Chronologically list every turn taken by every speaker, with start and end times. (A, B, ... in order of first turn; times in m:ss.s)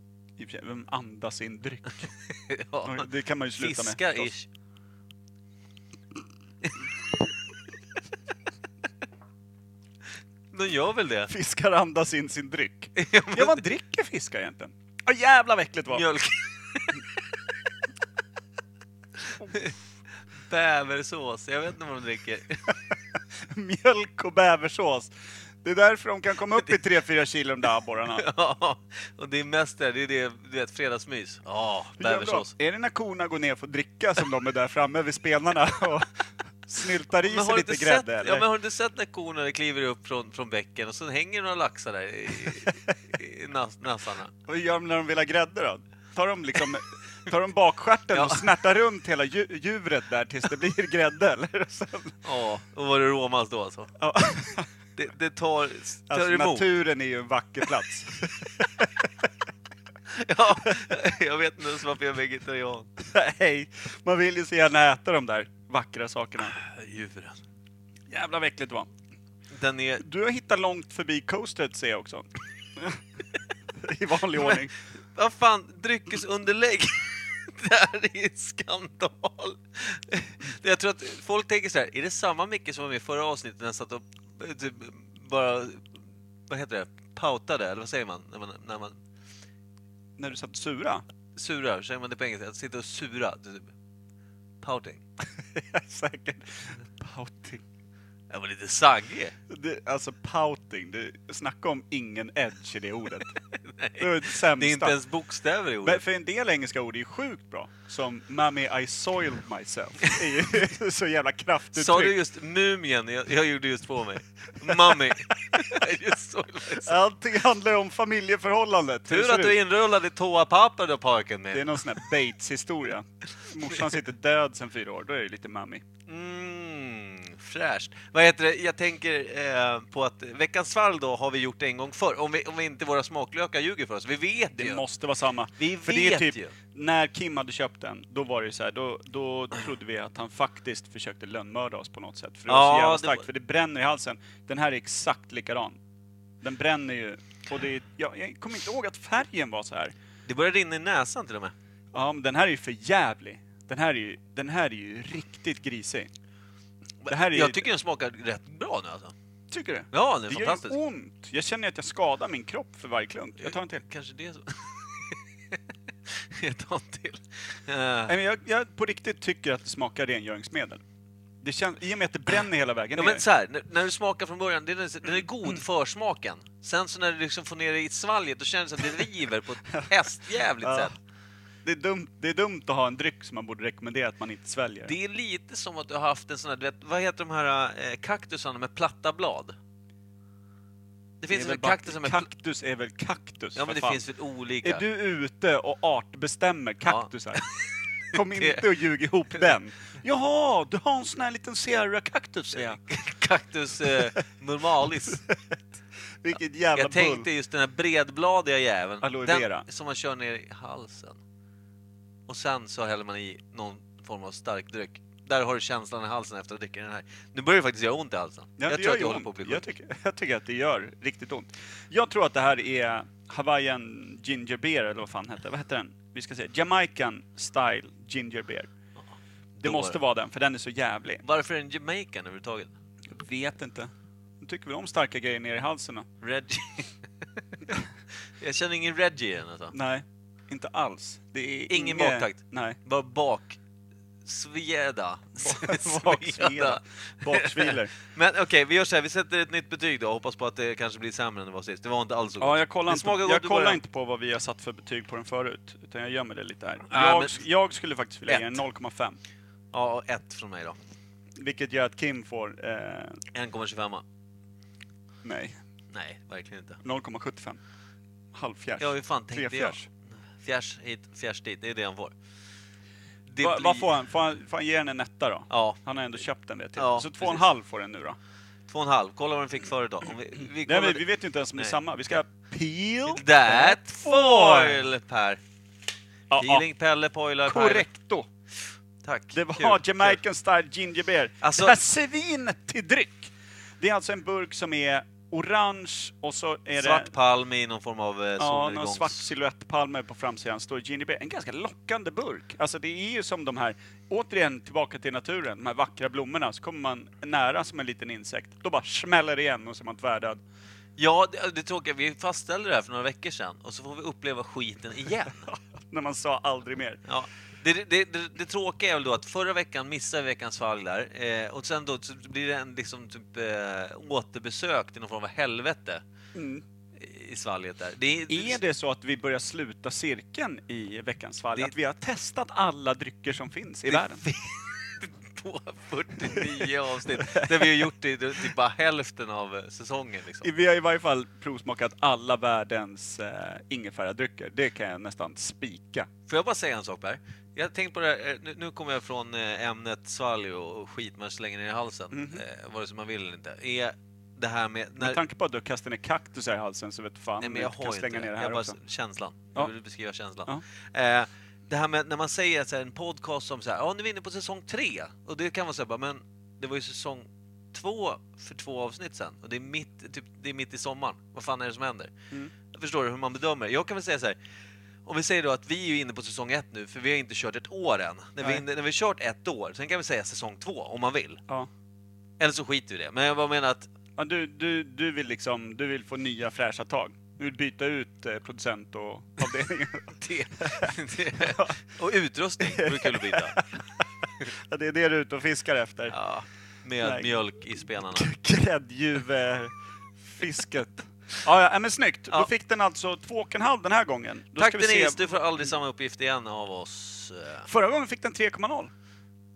0:00.4-0:02.1 A
0:02.3-0:04.5 B
0:02.8-0:04.3 A
0:10.5-0:11.3 B
0:11.3-0:16.0 A
0:13.0-0:13.6 B
0:15.9-0:17.0 B
0:19.5-0:19.7 B
0:20.5-0:22.7 B
0:23.4-0:28.2 A
0:28.1-0:32.5 B
0:32.0-0:38.4 A
0:37.2-0:44.3 B
0:42.4-0:42.7 A
0:44.4-0:52.2 A
0:48.1-0:48.5 B
0:52.2-0:53.9 B
0:54.0-0:54.7 A
0:55.0-0:56.7 B
0:56.1-0:59.0 A
1:00.1-1:02.9 B
1:03.0-1:06.6 A
1:06.5-1:07.4 B
1:08.1-1:08.9 A
1:09.5-1:10.0 B
1:10.0-1:13.0 A
1:13.8-1:14.7 A
1:14.4-1:14.6 B
1:15.1-1:29.0 B
1:30.2-1:31.0 A
1:31.4-1:33.7 B
1:34.6-1:35.0 B
1:35.5-1:37.6 A
1:38.3-1:39.3 B
1:39.5-1:43.4 A
1:43.6-1:46.0 B
1:44.0-1:45.0 A
1:45.8-1:52.2 A
1:51.7-1:56.9 B
1:56.8-1:59.6 A
1:59.1-2:02.0 B
2:01.5-2:05.8 A
2:06.1-2:14.8 B
2:14.5-2:25.8 A
2:15.6-2:16.5 B
2:22.5-2:23.2 B
2:26.4-2:29.9 A
2:30.3-2:31.5 B
2:31.9-2:36.1 A
2:37.0-2:39.1 B
2:37.1-2:37.6 A
2:39.5-2:43.8 A
2:39.9-2:40.8 B
2:43.4-2:48.1 B
2:48.1-2:50.8 A
2:51.4-2:53.2 A
2:53.0-3:00.9 B
3:00.6-3:00.9 A
3:01.6-3:04.9 A
3:04.8-3:09.6 B
3:11.2-3:12.3 B
3:11.3-3:14.0 A
3:13.6-3:14.8 B
3:14.6-3:17.4 A
3:16.8-3:18.7 B
3:18.1-3:22.8 A
3:22.5-3:25.2 B
3:26.2-3:27.3 A
3:26.7-3:31.2 B
3:29.0-3:29.6 A
3:32.3-3:39.6 B
3:38.6-3:48.7 A
3:49.0-3:50.0 B
3:49.6-3:51.2 A
3:51.2-3:52.7 B
3:53.1-3:56.1 A
3:56.2-3:57.0 B
3:58.4-3:59.7 B
3:59.7-4:02.8 A
4:01.7-4:03.6 B
4:04.2-4:13.8 B
4:05.4-4:07.9 A
4:12.4-4:19.2 A
4:16.9-4:17.4 B
4:18.3-4:18.6 B
4:19.7-4:20.8 B
4:21.4-4:23.2 A
4:23.3-4:24.0 B
4:25.2-4:25.6 A
4:25.9-4:26.8 B
4:26.8-4:27.6 A
4:28.3-4:29.8 A
4:28.8-4:29.8 B
4:30.4-4:32.1 B
4:33.3-4:33.9 B
4:33.4-4:38.2 A
4:35.5-4:35.8 B
4:36.8-4:37.5 B
4:38.7-4:41.0 B
4:40.6-4:44.8 A
4:43.1-4:45.4 B
4:46.3-4:46.6 A
4:46.3-4:47.9 B
4:47.4-4:48.3 A
4:49.0-4:50.2 B
4:49.3-4:57.1 A
4:51.4-4:51.8 B
4:56.8-4:59.3 B
4:58.4-5:10.4 A
5:11.0-5:15.4 B
5:15.4-5:17.0 A
5:17.0-5:26.0 B
5:26.3-5:26.6 A
5:27.0-5:28.6 B
5:28.3-5:34.2 A
5:33.9-5:40.5 B
5:36.2-5:37.9 A
5:40.4-5:46.1 A
5:46.3-5:55.2 B
5:52.1-5:52.4 A
5:55.0-5:58.8 A
5:57.4-6:12.1 B
6:12.7-6:14.4 B
6:15.0-6:21.4 B
6:22.4-6:23.9 B
6:24.2-6:31.8 A
6:30.1-6:33.6 B
6:32.6-6:33.7 A
6:34.4-6:36.2 A
6:36.1-6:38.3 B
6:37.0-6:45.4 A
6:44.6-6:47.7 B
6:47.6-6:48.9 A